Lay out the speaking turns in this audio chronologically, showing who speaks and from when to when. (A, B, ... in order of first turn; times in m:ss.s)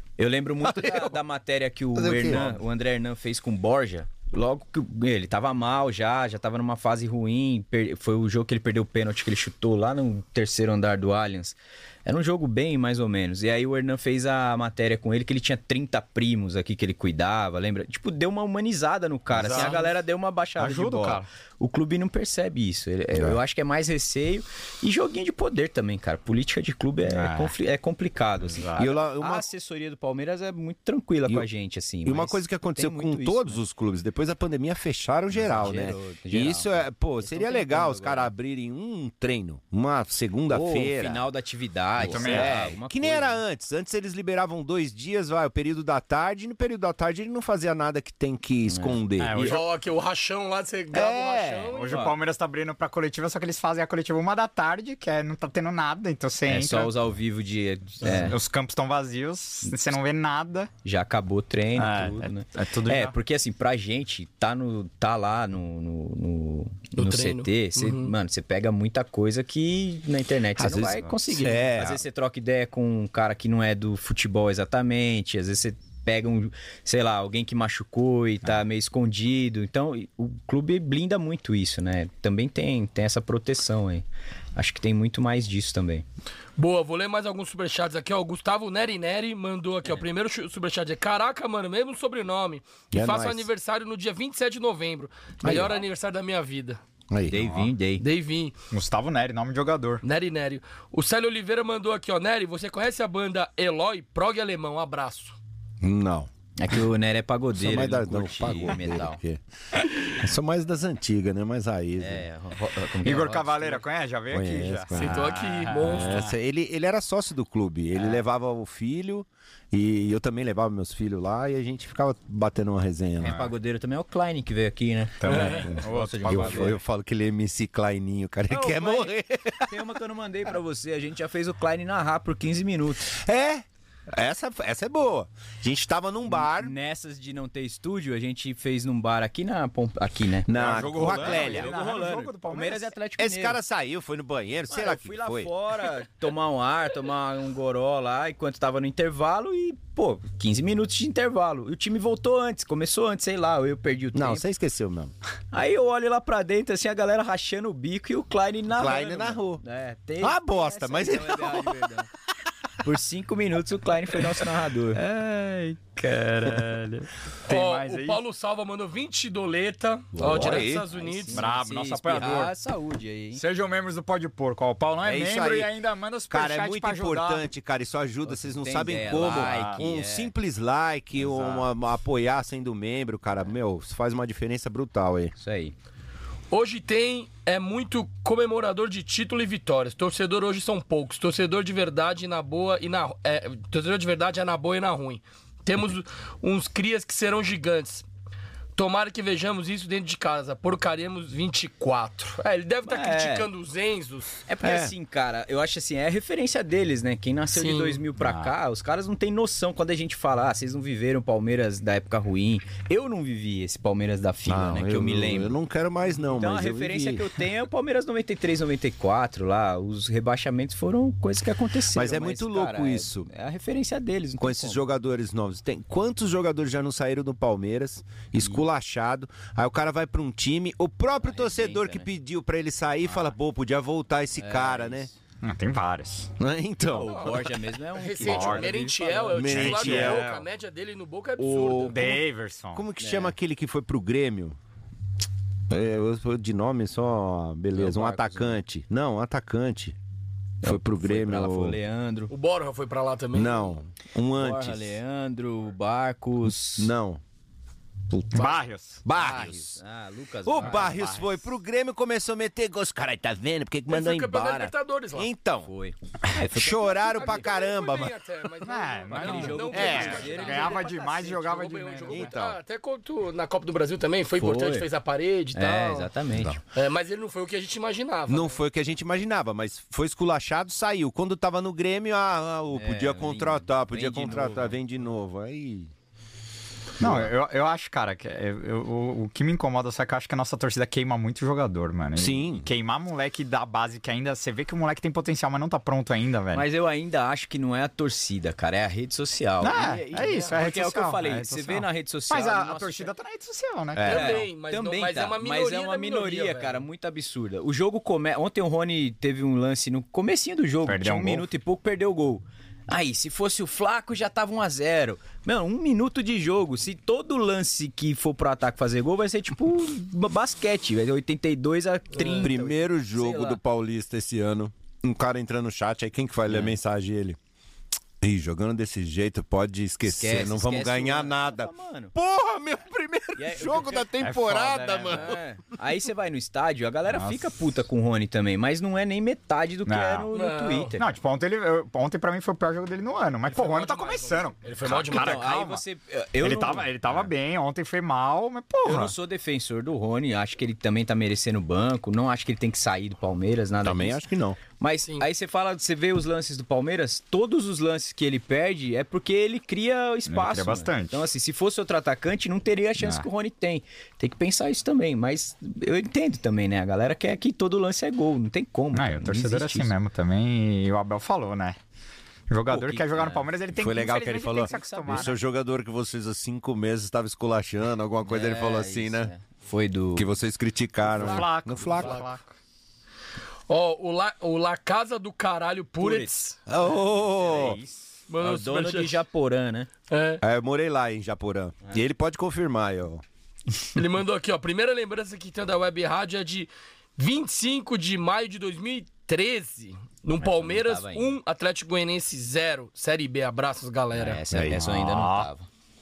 0:00.2-0:33.6 A
0:00.6-0:01.2 B
0:02.0-0:02.6 B
0:19.3-0:19.9 C
0:20.6-0:21.3 C
0:27.1-0:27.5 C
0:28.4-0:28.9 C
0:28.8-0:29.5 B
0:32.0-0:41.2 B
0:35.3-0:35.7 C
0:35.6-0:38.3 A
0:40.5-0:43.4 A
0:42.0-0:49.6 B
0:42.0-0:42.7 C
0:48.7-0:49.0 A
0:49.2-0:49.6 C
0:49.4-0:52.0 D
0:50.9-0:51.8 B
0:51.7-0:56.9 C
0:56.5-0:58.4 A
0:58.0-1:00.7 C
1:00.8-1:24.0 A
1:01.8-1:03.2 C
1:07.0-1:08.1 D
1:10.6-1:12.0 B
1:10.8-1:11.1 C
1:24.6-1:26.0 A
1:26.6-1:36.8 D
1:32.9-1:33.5 B
1:35.4-1:35.8 B
1:37.1-1:37.4 B
1:37.3-1:38.0 A
1:37.4-1:37.7 C
1:38.0-1:38.5 D
1:38.7-1:40.0 C
1:40.0-1:45.4 D
1:45.8-1:46.3 B
1:46.6-1:49.2 A
1:47.6-1:49.4 B
1:50.0-1:52.2 B
1:52.0-1:53.8 A
1:53.0-1:56.3 C
1:54.3-2:03.4 B
1:54.9-1:56.2 D
1:57.9-1:58.2 A
2:03.2-2:06.8 A
2:03.2-2:03.5 C
2:05.2-2:06.8 C
2:05.3-2:05.7 D
2:05.3-2:09.7 B
2:08.5-2:09.1 A
2:09.7-2:13.2 A
2:13.2-2:16.7 B
2:16.3-2:23.6 A
2:20.5-2:21.7 B
2:20.5-2:22.9 C
2:23.2-2:25.5 B
2:24.7-2:34.4 A
2:34.2-2:35.1 B
2:35.5-2:42.1 A
2:38.7-2:39.6 B
2:40.2-2:41.8 B
2:42.8-2:46.6 A
2:46.0-2:48.2 C
2:47.5-2:51.4 D
2:50.2-2:50.8 B
2:50.2-2:53.4 A
2:51.3-2:52.5 C
2:53.3-2:57.5 C
2:55.0-2:55.7 B
2:56.3-3:05.3 B
2:58.3-3:00.3 A
2:59.2-2:59.8 C
3:01.2-3:01.6 C
3:05.4-3:05.7 A
3:06.5-3:18.1 D
3:18.8-3:24.4 D
3:22.8-3:23.5 A
3:24.5-3:35.6 A
3:24.6-3:24.9 B
3:27.5-3:28.0 D
3:28.2-3:28.5 C
3:34.5-3:37.3 B
3:36.1-3:44.8 A
3:41.9-3:43.3 B
3:44.4-3:55.1 B
3:51.2-3:52.1 A
3:54.4-3:55.2 A
3:55.4-3:56.3 C
3:56.4-3:57.5 B
3:56.8-3:59.6 A
3:58.0-4:02.0 D
3:58.2-4:00.4 C
3:59.3-4:00.3 B
4:01.4-4:02.2 B
4:01.9-4:02.8 C
4:02.7-4:04.6 B
4:03.0-4:03.3 A
4:05.7-4:10.0 B
4:07.7-4:08.6 A
4:10.6-4:12.3 A
4:10.6-4:11.8 B
4:12.3-4:13.7 D
4:13.3-4:15.0 B
4:14.4-4:16.9 A
4:16.4-4:17.2 B
4:18.1-4:19.8 B
4:18.3-4:19.0 C
4:19.1-4:21.5 A
4:20.4-4:25.7 B
4:23.9-4:25.3 D
4:25.6-4:26.0 A
4:26.3-4:28.2 B
4:26.5-4:26.9 A
4:27.0-4:36.1 D
4:28.6-4:32.4 C
4:29.1-4:31.3 A
4:29.7-4:30.3 B
4:32.1-4:32.6 B
4:34.4-4:34.9 A
4:35.5-4:36.6 A
4:36.3-4:36.6 B
4:36.7-4:38.6 D
4:38.3-4:45.9 B
4:42.7-4:44.8 A
4:47.0-4:47.3 B
4:47.0-4:56.6 C
4:52.2-4:52.7 B
4:56.5-5:03.1 A
4:59.6-5:04.3 C
5:00.2-5:00.6 D
5:04.0-5:04.4 B
5:04.0-5:23.6 A
5:04.1-5:06.8 D
5:10.9-5:11.5 C
5:22.1-5:22.5 D
5:22.4-5:27.4 B
5:26.5-5:26.8 A
5:28.2-5:35.4 B
5:30.0-5:32.1 A
5:33.4-5:41.0 A
5:34.2-5:34.8 C
5:37.1-5:37.4 C
5:39.9-5:40.3 C
5:40.3-5:41.0 D
5:41.0-5:45.8 C
5:43.5-5:45.5 D
5:45.1-5:47.3 A
5:46.4-5:49.1 C
5:48.8-6:09.9 A
5:53.8-5:54.6 B
6:00.3-6:01.2 C
6:03.0-6:03.3 C
6:08.9-6:11.8 C
6:12.5-6:15.4 C
6:12.7-6:13.5 A
6:13.8-6:19.3 B
6:14.4-6:15.4 A
6:18.2-6:20.3 A
6:20.2-6:22.2 B
6:21.2-6:22.5 C
6:22.0-6:22.2 D
6:23.7-6:26.6 D
6:26.0-6:26.4 C
6:26.7-6:27.8 B
6:27.3-6:28.1 C
6:28.3-6:29.2 D
6:28.4-6:29.9 A
6:30.1-6:30.4 D
6:30.4-6:33.2 B
6:34.0-6:44.4 D
6:40.4-6:41.4 A
6:44.1-6:45.7 A
6:44.5-6:44.9 B
6:44.8-6:45.5 C